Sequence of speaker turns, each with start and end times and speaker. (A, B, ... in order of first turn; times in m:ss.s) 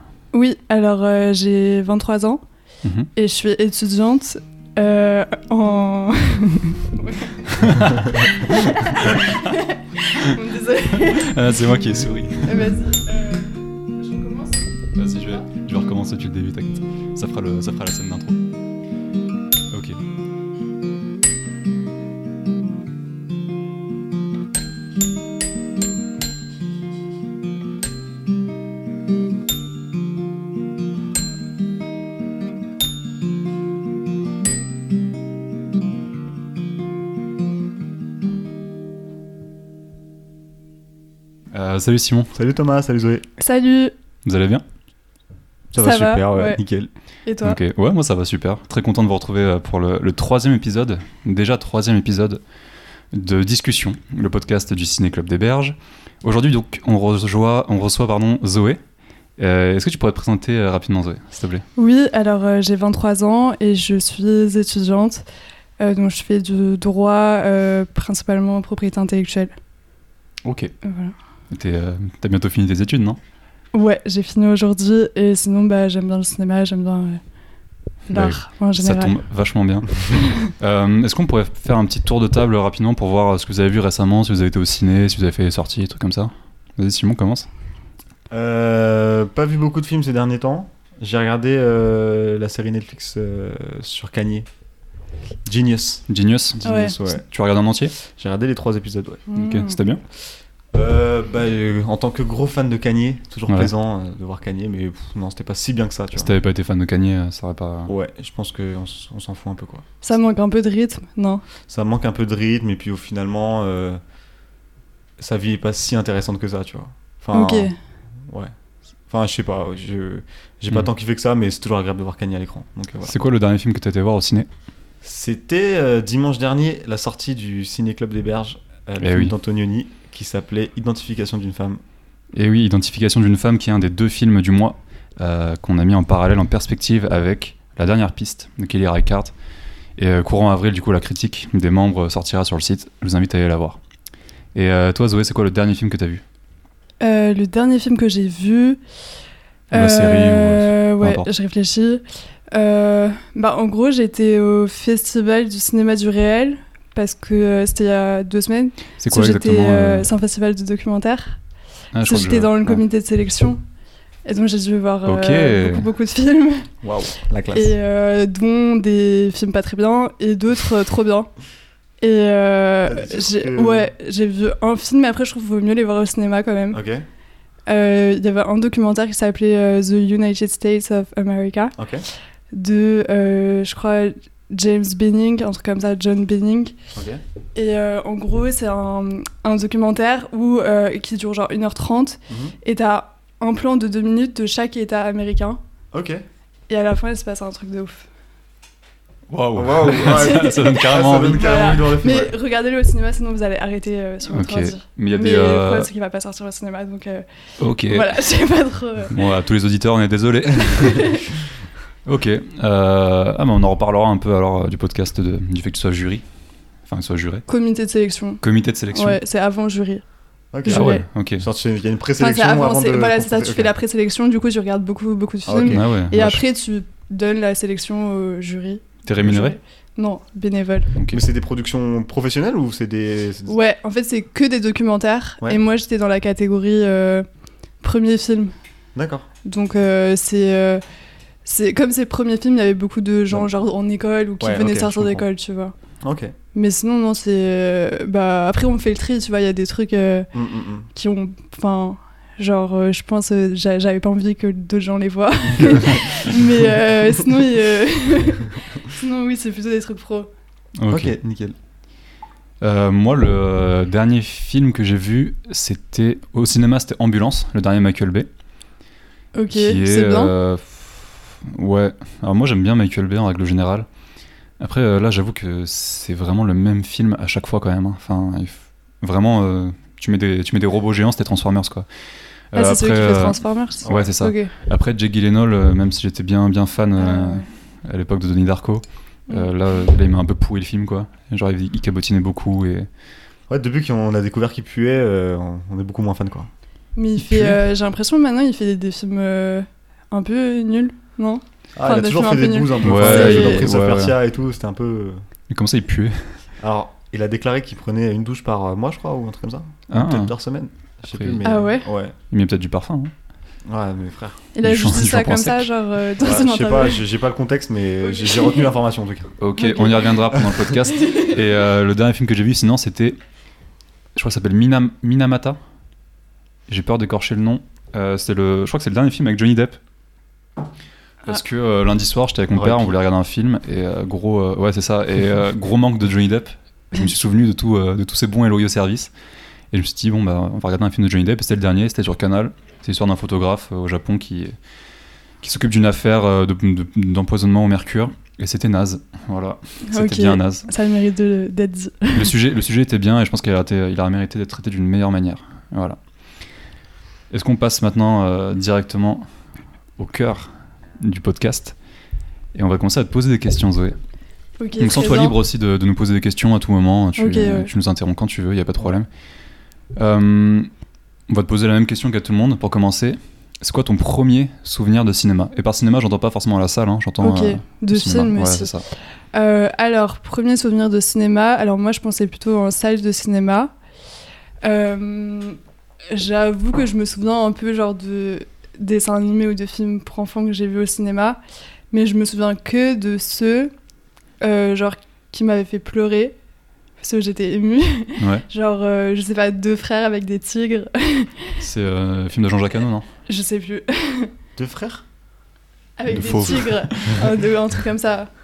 0:00.3-0:02.4 A
0:03.2-0:11.6 A
0:07.5-0:09.5 B
0:10.9-0:12.7 B
0:12.4-0:14.7 A
0:14.9-0:18.4 B
0:19.7-0:20.0 B
0:41.5-0:42.3 B
0:42.3-0:43.2 C
0:43.4-0:43.9 A
0:44.2-0:44.6 B
0:45.7-0:46.9 C
0:45.8-0:46.6 A
0:47.2-0:47.6 A
0:47.4-0:52.4 B
0:53.1-0:58.8 B
0:59.4-1:01.6 B
1:01.8-1:05.2 A
1:05.8-1:09.5 A
1:10.4-1:10.7 B
1:10.8-1:11.1 A
1:11.5-1:13.2 B
1:13.7-1:17.2 A
1:18.1-1:19.1 A
1:18.1-1:27.5 B
1:28.3-1:34.4 C
1:35.4-1:36.1 C
1:36.1-1:37.9 B
1:36.6-1:37.2 C
1:36.6-1:37.0 A
1:38.0-1:39.2 C
1:39.3-1:39.8 A
1:39.3-1:40.0 B
1:40.7-1:46.3 C
1:46.2-1:47.9 B
1:47.9-1:49.8 C
1:50.0-1:51.4 A
1:51.7-1:54.0 C
1:55.2-1:58.5 C
1:57.3-1:57.8 A
1:59.1-2:03.1 C
2:03.0-2:04.5 B
2:05.0-2:11.8 C
2:09.0-2:09.3 B
2:12.3-2:19.3 B
2:20.0-2:23.8 B
2:24.5-2:26.2 B
2:27.0-2:28.8 A
2:29.7-2:41.4 A
2:29.7-2:31.3 B
2:39.0-2:40.1 B
2:41.9-2:42.8 B
2:42.0-2:43.6 A
2:44.2-2:46.7 A
2:45.0-2:45.9 B
2:46.8-2:47.7 C
2:47.5-2:51.3 A
2:52.0-2:56.8 A
2:52.8-2:53.9 C
2:56.7-2:57.0 C
2:57.7-3:01.8 A
3:01.8-3:02.1 C
3:02.5-3:06.7 A
3:06.9-3:07.2 C
3:07.5-3:15.6 A
3:12.3-3:12.5 C
3:15.9-3:16.2 C
3:16.7-3:18.0 A
3:19.3-3:21.7 B
3:19.5-3:22.3 C
3:19.9-3:27.2 A
3:24.3-3:25.9 B
3:27.6-3:28.1 B
3:27.8-3:29.1 A
3:29.1-3:31.1 B
3:30.7-3:31.2 A
3:32.0-3:36.2 B
3:36.8-3:37.4 B
3:37.5-3:40.0 A
3:38.4-3:39.2 B
3:40.5-3:43.7 C
3:40.6-3:41.0 A
3:40.7-3:41.4 B
3:42.2-3:50.9 A
3:45.4-3:45.8 C
3:45.6-3:46.4 B
3:49.0-3:49.6 B
3:51.0-3:51.2 B
3:51.1-3:53.6 C
3:53.5-3:57.2 A
3:57.8-3:58.5 A
3:58.9-3:59.3 C
3:59.4-4:00.8 A
4:01.4-4:05.7 A
4:04.4-4:05.2 C
4:06.0-4:06.3 C
4:06.5-4:10.3 A
4:10.3-4:10.9 C
4:10.9-4:20.3 A
4:15.5-4:16.0 C
4:20.8-4:21.1 B
4:20.9-4:21.5 C
4:22.6-4:28.3 B
4:29.3-4:30.3 A
4:29.5-4:33.9 B
4:34.6-4:41.9 B
4:42.5-4:52.9 B
4:42.5-4:44.5 A
4:43.8-4:44.1 C
4:47.0-4:47.5 A
4:53.5-4:56.5 C
4:57.0-5:03.7 A
4:57.2-4:57.6 B
5:01.8-5:05.2 C
5:02.8-5:04.1 B
5:05.5-5:06.4 B
5:06.6-5:12.1 C
5:09.9-5:10.3 B
5:11.1-5:11.4 B
5:11.4-5:11.9 A
5:12.3-5:13.1 B
5:13.6-5:14.4 C
5:14.5-5:17.0 A
5:14.6-5:15.7 B
5:16.2-5:19.3 C
5:18.2-5:18.7 A
5:19.4-5:23.2 B
5:19.6-5:21.3 A
5:24.1-5:25.6 B
5:26.7-5:29.8 B
5:31.2-5:39.1 B
5:32.5-5:32.9 C
5:39.7-5:44.6 B
5:45.4-5:50.6 B
5:49.9-5:52.3 A
5:52.1-5:56.0 B
5:57.3-5:59.3 B
6:00.0-6:01.8 B
6:02.5-6:04.0 B
6:04.6-6:05.4 A
6:04.8-6:09.1 B
6:07.2-6:07.7 A
6:10.0-6:10.7 B
6:11.3-6:18.8 B
6:17.2-6:23.7 A
6:24.6-6:25.6 A
6:26.1-6:31.4 A
6:31.9-6:33.7 A
6:34.4-6:36.4 A
6:37.0-6:41.5 A
6:38.2-6:38.4 B
6:41.6-6:43.0 B
6:43.3-6:44.3 A
6:44.6-6:45.0 C
6:46.0-6:48.3 A
6:46.1-6:47.2 B